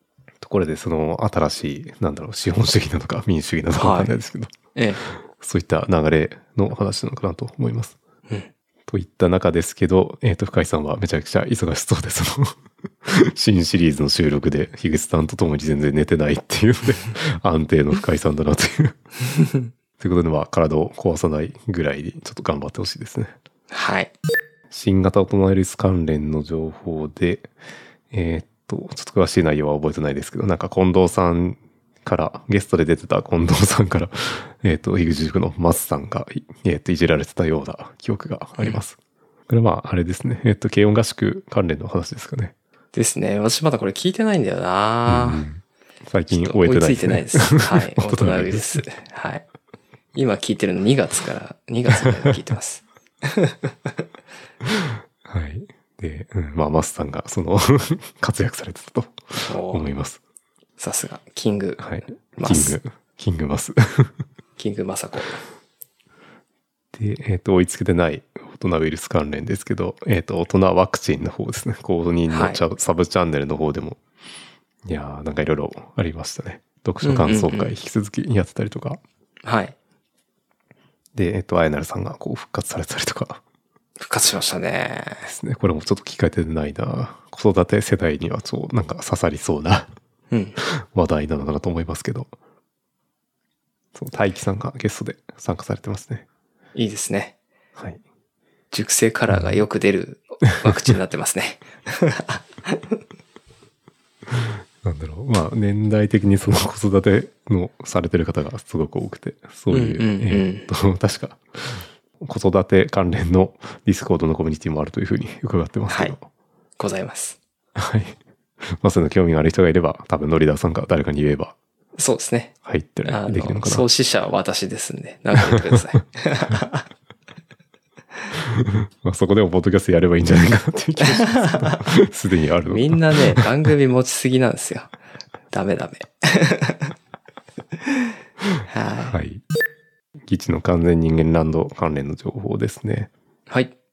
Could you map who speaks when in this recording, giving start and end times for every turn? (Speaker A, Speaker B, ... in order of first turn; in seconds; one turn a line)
Speaker A: 0.4-4.5
Speaker B: 3.8-4.1
Speaker B: 4.7-5.0
Speaker A: 5.4-8.0
Speaker A: 8.9-18.9
Speaker A: 20.0-23.3
Speaker B: 23.7-24.1
Speaker A: 24.7-27.5
Speaker A: 28.1-39.0
Speaker A: 39.5-42.5
Speaker B: 42.9-45.4
Speaker A: 45.0-48.9
Speaker B: 46.3-49.4
Speaker B: 50.1-54.0
Speaker A: 52.0-52.4
Speaker A: 55.2-60.2
Speaker B: 59.5-59.9
Speaker B: 60.8-61.8
Speaker A: 61.8-64.1
Speaker B: 62.3-62.8
Speaker B: 64.6-65.4
Speaker A: 66.9-74.0
Speaker B: 72.3-72.6
Speaker A: 74.8-79.0
Speaker B: 77.0-77.8
Speaker B: 79.4-79.7
Speaker A: 81.1-83.4
Speaker B: 84.0-85.2
Speaker A: 85.2-89.9
Speaker B: 90.3-90.5
Speaker A: 90.6-92.3
Speaker A: 93.9-96.2
Speaker B: 96.7-97.3
Speaker A: 97.8-98.0
Speaker B: 98.7-102.9
Speaker A: 99.3-99.6
Speaker A: 104.8-116.3
Speaker B: 109.7-110.7
Speaker B: 115.9-116.1
Speaker B: 116.8-117.4
Speaker A: 117.8-121.5
Speaker B: 122.0-126.8
Speaker A: 122.6-123.8
Speaker A: 128.4-133.4
Speaker B: 131.1-131.7
Speaker B: 132.7-134.9
Speaker B: 135.5-136.9
Speaker B: 137.8-138.1
Speaker B: 138.7-139.2
Speaker A: 139.1-139.4
Speaker A: 140.3-143.1